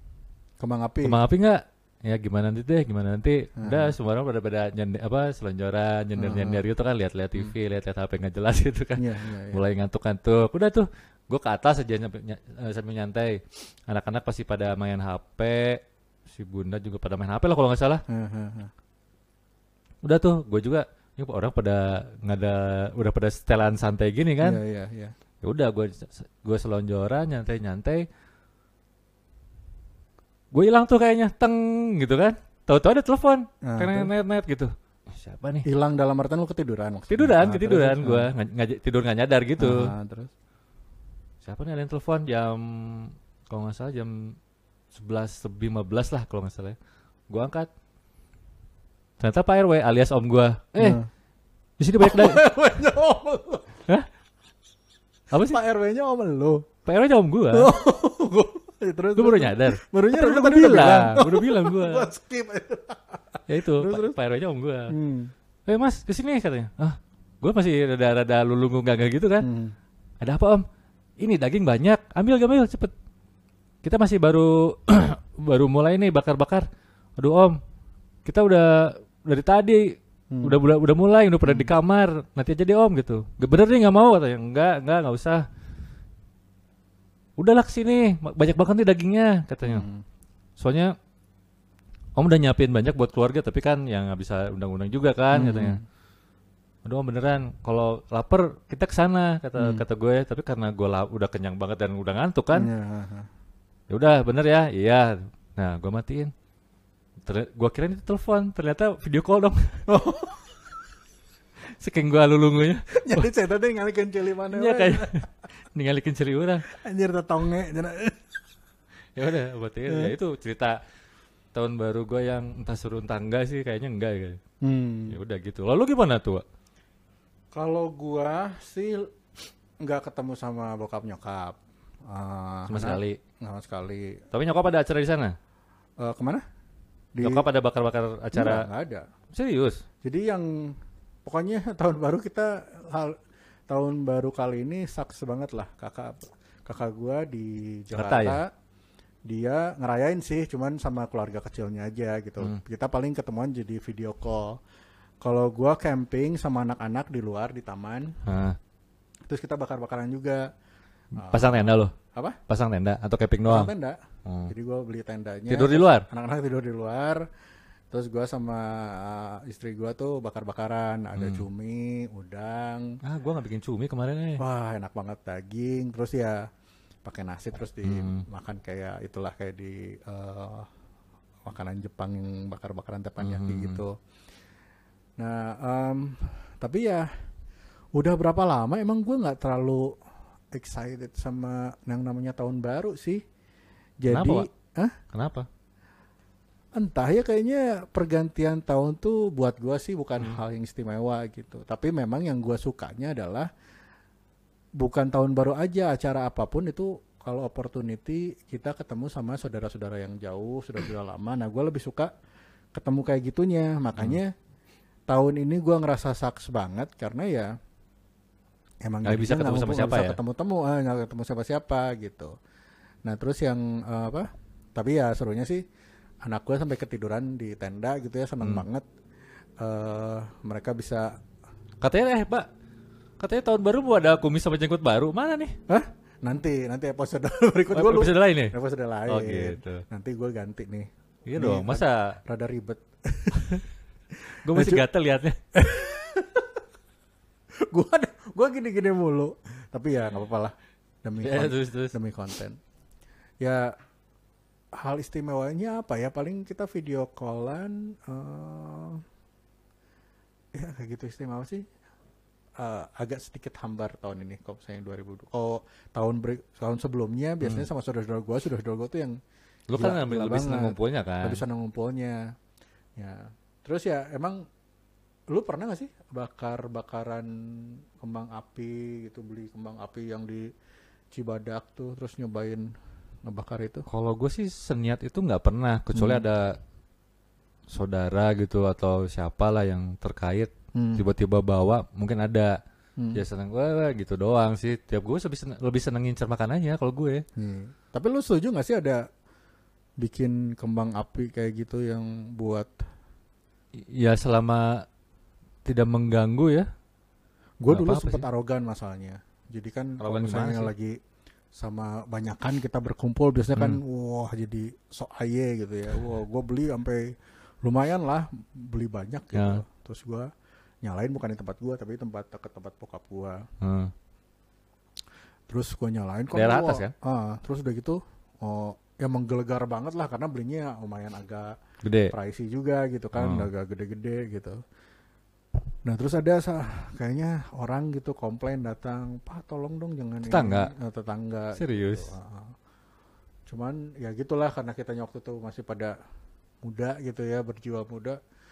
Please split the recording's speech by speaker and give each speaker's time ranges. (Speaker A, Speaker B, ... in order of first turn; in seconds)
Speaker A: 0.6-1.2, 3.6-3.9, 6.2-6.6, 9.0-9.6, 18.1-18.7, 24.4-25.1, 33.6-34.1, 35.6-38.3, 39.6-40.3, 50.8-51.1, 52.0-53.7, 55.5-56.7, 57.5-64.2, 64.9-65.3, 69.4-69.8, 80.3-80.6, 81.4-81.7, 89.7-90.0, 95.3-95.8, 99.6-99.8, 102.5-103.3, 109.9-110.6, 112.9-115.2, 116.7-118.2, 119.9-120.1, 124.6-125.2, 127.5-129.1, 129.8-134.2, 136.0-136.4, 137.2-137.5, 138.3-139.1, 140.0-143.2, 143.7-148.5, 149.3-154.6, 155.2-158.2, 159.3-160.5, 161.2-162.4, 163.4-167.3, 167.9-173.0, 174.4-176.5, 177.0-180.7, 181.5-183.9, 185.2-187.1, 187.9-189.9, 190.5-193.2, 194.0-194.9, 196.8-203.5, 204.8-212.1, 212.7-214.3, 215.1-217.5, 218.8-222.3, 223.1-225.6, 226.2-228.9, 229.6-231.1, 235.7-243.6, 244.5-244.8, 245.5-246.6, 247.7-252.6, 253.4-253.8, 254.7-259.0, 260.5-261.6, 262.6-269.2, 269.7-272.2, 273.0-274.4, 275.3-280.5, 281.1-282.7, 283.2-283.9, 285.9-286.2, 290.8-291.1, 293.0-293.2, 297.4-299.0, 300.0-302.8, 307.6-311.0, 311.5-320.3, 320.8-323.5, 325.5-331.6, 332.1-334.6, 335.9-342.6, 343.5-345.9, 346.6-348.2
Speaker B: 1.0-18.0, 20.0-24.6, 25.4-28.1, 30.5-35.7, 37.1-39.9, 41.4-44.4, 44.9-46.8, 47.3-47.7, 49.2-51.0, 51.8-52.4, 55.3-55.6, 56.9-57.7, 59.2-62.1, 63.5-64.9, 65.7-69.5, 70.2-70.6, 71.2-72.9, 73.8-76.7, 77.2-77.6, 78.2-85.5, 87.4-89.8, 90.6-90.9, 92.2-95.8, 96.8-102.7, 103.9-106.3, 107.3-109.9, 111.7-113.3, 114.5-116.7, 119.2-120.8, 121.5-124.4, 125.1-126.4, 132.7-133.2, 134.3-135.4, 137.2-138.7, 139.3-139.8, 147.9-148.4, 158.2-158.6, 161.2-161.9, 162.5-163.7, 164.3-164.5, 165.5-166.1, 171.2-171.4, 173.0-174.4, 177.8-178.2, 183.2-183.8, 194.1-194.5, 195.1-195.5, 219.1-220.2, 231.8-232.5, 233.2-235.6, 237.7-238.6, 239.1-239.8, 241.3-242.2, 244.4-245.4, 251.2-251.9, 267.4-267.7, 269.7-271.4, 283.9-286.6, 287.7-292.6, 293.1-297.2, 303.8-304.9, 305.6-306.7, 307.7-308.2, 310.0-310.7, 319.3-319.6, 323.6-323.9, 326.3-326.9, 331.8-332.1, 333.2-333.5, 340.2-340.7, 341.6-342.1